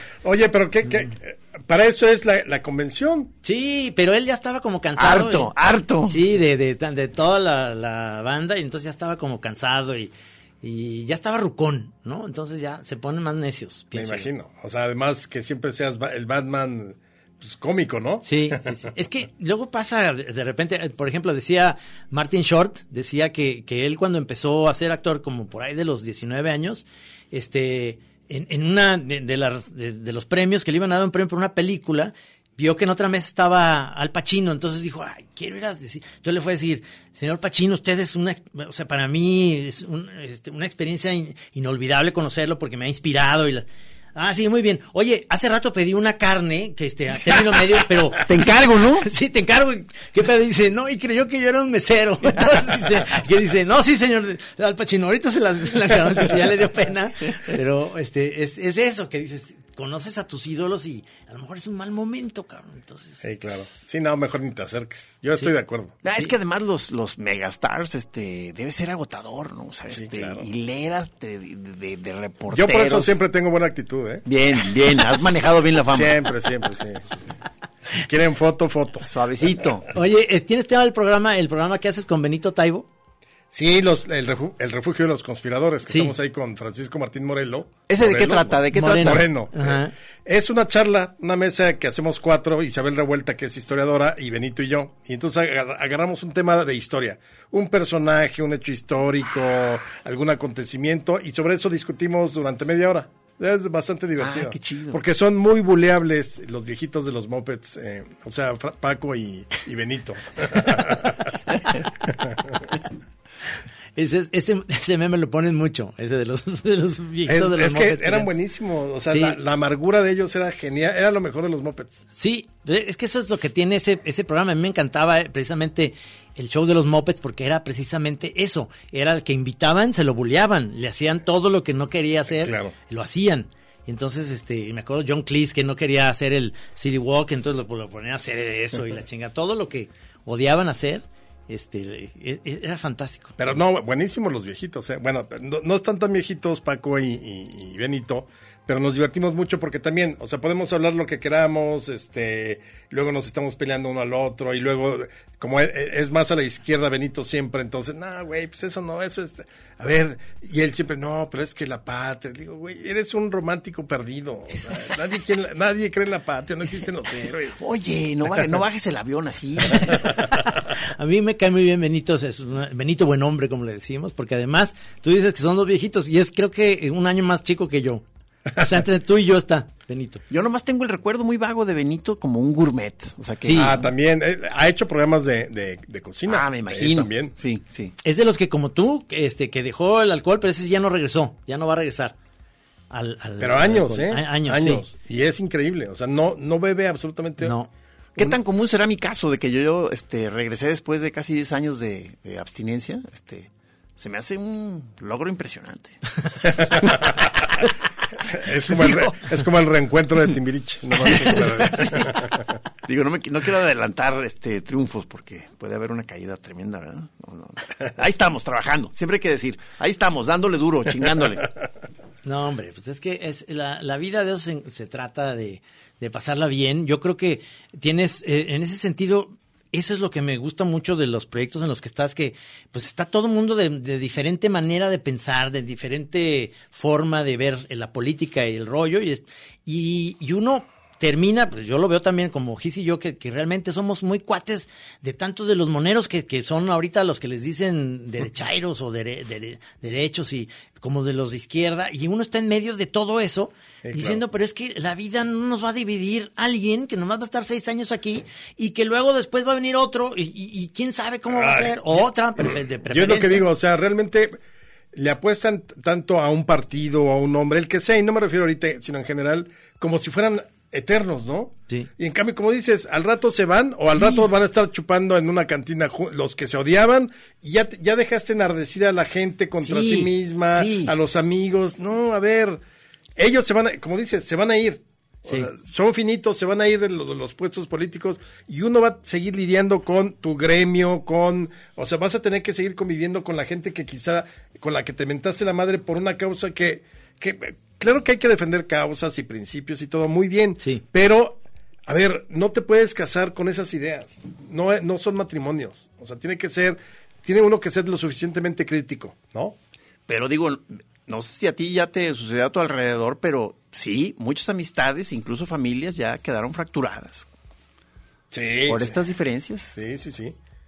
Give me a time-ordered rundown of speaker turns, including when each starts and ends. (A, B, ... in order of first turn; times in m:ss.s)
0:00.2-0:03.3 A
0:03.4-0:05.5 B
0:05.0-0:06.2 C
0:06.1-0:14.3 B
0:13.9-0:18.9 A
0:18.2-0:48.3 B
0:48.2-0:49.1 C
0:49.0-1:03.2 B
1:03.2-1:06.0 A
1:06.0-1:13.2 C
1:09.9-1:10.5 A
1:12.5-1:14.2 A
1:14.3-1:16.2 C
1:15.9-1:17.3 A
1:18.0-1:19.1 A
1:19.0-1:19.9 C
1:19.9-1:22.9 B
1:23.5-1:51.4 A
1:25.9-1:26.1 B
1:27.9-1:29.3 C
1:28.7-1:29.9 B
1:44.2-1:45.0 C
1:52.0-1:52.7 A
1:54.0-1:58.3 B
1:57.3-2:02.0 A
1:59.1-1:59.4 B
2:02.2-2:23.4 B
2:12.4-2:12.7 A
2:23.4-2:47.6 A
2:47.6-2:50.3 C
2:50.1-3:00.2 B
3:00.3-3:03.9 C
3:03.4-3:03.8 B
3:03.6-3:07.3 A
3:06.3-3:08.0 C
3:08.0-3:12.2 B
3:12.9-3:14.8 B
3:13.4-3:17.6 A
3:17.4-3:17.7 B
3:18.2-3:27.7 C
3:26.4-3:27.3 A
3:28.3-3:32.6 A
3:28.3-3:29.3 C
3:31.0-3:32.3 C
3:32.8-3:41.5 C
3:42.2-4:23.5 B
4:13.8-4:14.2 A
4:21.3-4:24.4 A
4:24.9-4:42.6 A
4:39.6-4:40.9 B
4:43.2-5:09.6 A
5:10.1-5:17.3 C
5:18.3-5:19.0 A
5:18.7-5:19.8 C
5:19.8-5:20.4 A